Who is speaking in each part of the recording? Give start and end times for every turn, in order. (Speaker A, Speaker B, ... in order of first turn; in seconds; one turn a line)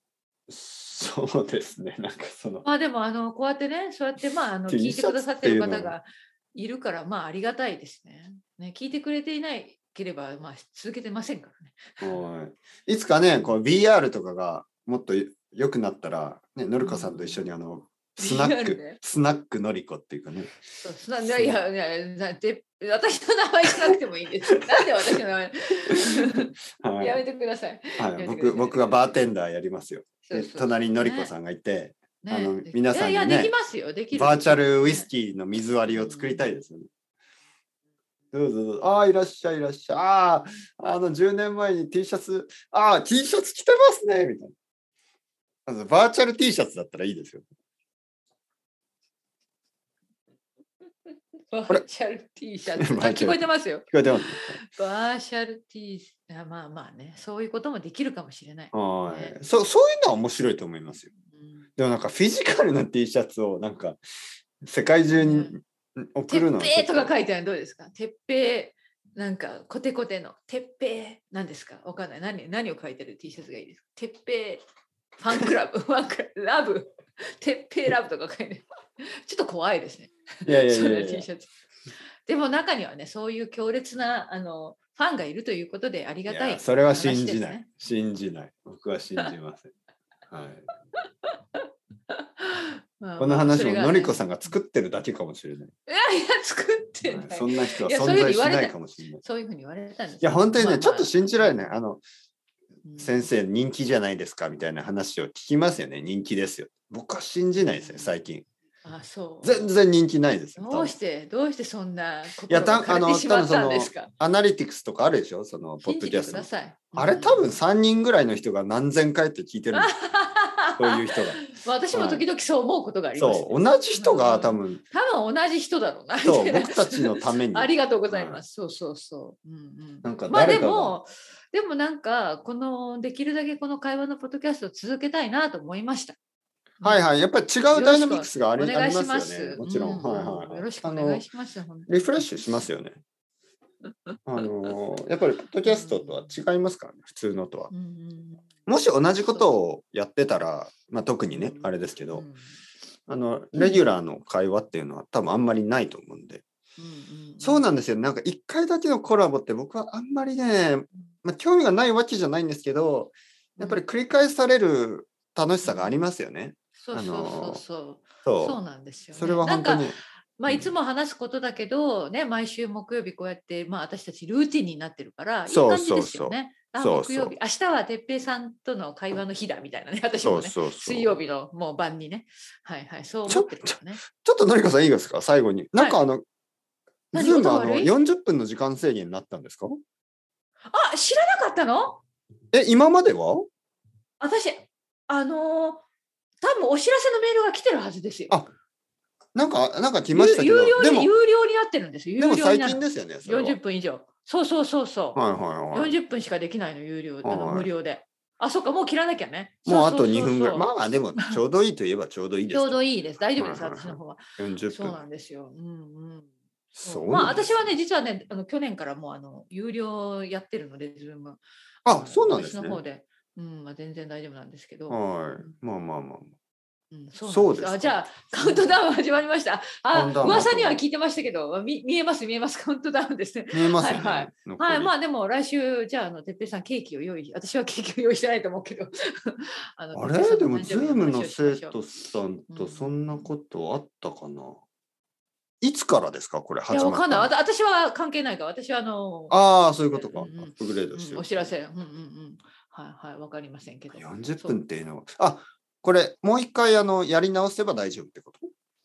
Speaker A: 0.5-2.6
Speaker B: 2.6-12.2
Speaker A: 4.7-5.9
Speaker A: 12.0-20.5
Speaker B: 16.8-17.4
Speaker B: 18.2-19.0
Speaker B: 20.8-29.2
Speaker A: 21.2-21.6
Speaker A: 24.6-25.1
Speaker A: 25.9-27.2
Speaker A: 28.0-33.5
Speaker B: 30.2-31.3
Speaker B: 32.2-35.1
Speaker A: 34.1-36.9
Speaker B: 35.9-36.5
Speaker A: 38.3-44.5
Speaker A: 45.6-47.4
Speaker B: 51.5-54.0
Speaker A: 52.8-54.6
Speaker B: 54.5-59.4
Speaker A: 58.7-61.1
Speaker B: 61.3-61.6
Speaker A: 61.8-64.0
Speaker A: 64.6-67.1
Speaker B: 65.1-65.6
Speaker B: 66.3-74.6
Speaker B: 75.2-81.5
Speaker A: 80.4-81.3
Speaker B: 82.3-87.7
Speaker A: 86.3-89.7
Speaker A: 90.3-90.7
Speaker B: 91.2-94.5
Speaker A: 93.2-95.7
Speaker B: 95.9-101.7
Speaker A: 97.1-99.2
Speaker A: 100.2-102.0
Speaker B: 102.8-103.3
Speaker A: 103.0-108.4
Speaker B: 107.7-108.1
Speaker B: 108.8-109.7
Speaker A: 109.4-110.9
Speaker B: 110.6-114.1
Speaker A: 112.5-119.9
Speaker B: 115.8-117.6
Speaker B: 119.7-136.2
Speaker A: 120.7-121.4
Speaker A: 121.9-122.2
Speaker A: 123.2-124.8
Speaker A: 126.2-128.4
Speaker A: 130.0-131.0
Speaker B: 136.8-137.1
Speaker A: 136.8-141.2
Speaker B: 137.7-142.6
Speaker A: 141.9-143.0
Speaker A: 144.2-147.7
Speaker B: 145.6-146.3
Speaker B: 147.7-148.5
Speaker A: 148.7-152.2
Speaker B: 149.2-149.5
Speaker B: 151.3-152.5
Speaker A: 153.1-156.4
Speaker B: 153.6-153.9
Speaker B: 156.8-157.7
Speaker A: 157.4-167.6
Speaker B: 163.6-163.8
Speaker B: 165.6-165.9
Speaker B: 166.8-184.0
Speaker A: 168.2-168.6
Speaker A: 169.1-170.7
Speaker A: 175.5-177.3
Speaker A: 180.2-181.2
Speaker A: 183.3-186.2
Speaker B: 185.8-186.0
Speaker A: 187.1-189.8
Speaker B: 187.1-187.9
Speaker B: 190.7-192.0
Speaker A: 192.5-193.5
Speaker B: 194.2-195.8
Speaker B: 196.4-198.3
Speaker A: 199.3-201.1
Speaker B: 200.1-205.2
Speaker A: 202.2-203.6
Speaker A: 205.1-205.9
Speaker B: 205.7-210.7
Speaker A: 207.2-207.7
Speaker A: 209.7-212.8
Speaker B: 212.5-216.3
Speaker A: 213.3-215.0
Speaker A: 216.7-217.7
Speaker B: 216.8-225.0
Speaker A: 221.8-222.8
Speaker A: 224.9-226.3
Speaker B: 226.9-241.8
Speaker A: 227.2-228.8
Speaker A: 229.9-230.8
Speaker A: 233.5-234.9
Speaker A: 239.9-244.6
Speaker B: 242.5-243.3
Speaker A: 245.6-247.3
Speaker B: 246.7-254.6
Speaker A: 249.3-251.5
Speaker A: 253.9-258.5